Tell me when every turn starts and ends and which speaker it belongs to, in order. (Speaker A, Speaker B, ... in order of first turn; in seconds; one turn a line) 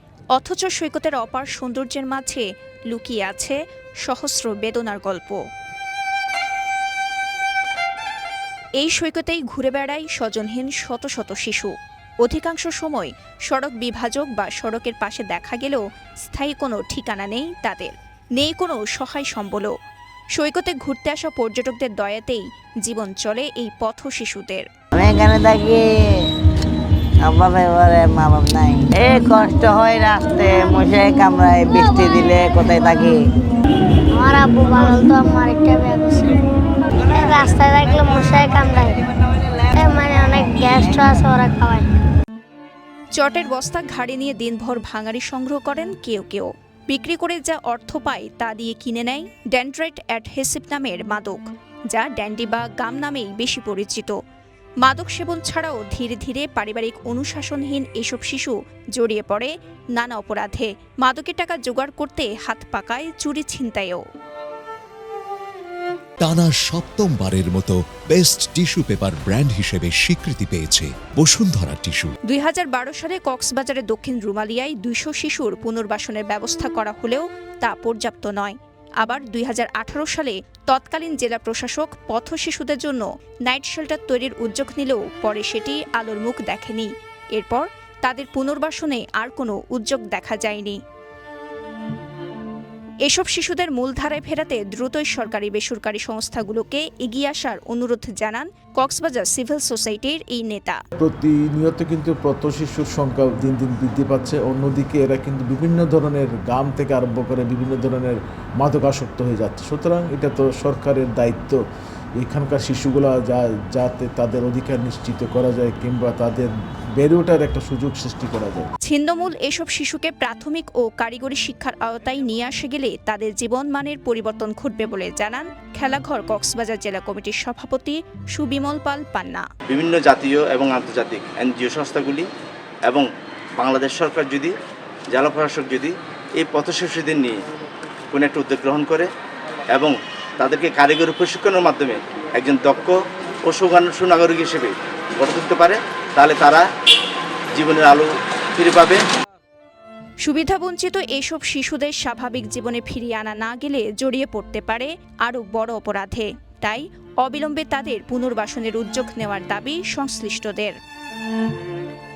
Speaker A: 0.3-5.4
Speaker A: 8.8-19.7
Speaker A: 20.3-24.6
Speaker B: 24.9-26.3
Speaker B: 27.2-33.2
Speaker C: 34.1-39.0
Speaker C: 39.6-41.9
Speaker A: 43.1-54.2
Speaker A: 54.8-64.0
Speaker D: 66.2-72.1
Speaker A: 72.3-90.8
Speaker A: 93.0-100.8
Speaker E: 101.0-111.6
Speaker E: 112.2-118.7
Speaker A: 118.8-129.4
Speaker F: 129.7-132.3
Speaker F: 133.6-134.5
Speaker F: 135.1-137.4
Speaker F: 138.1-139.1
Speaker F: 139.7-146.6
Speaker F: 147.6-149.0
Speaker A: 150.2-160.8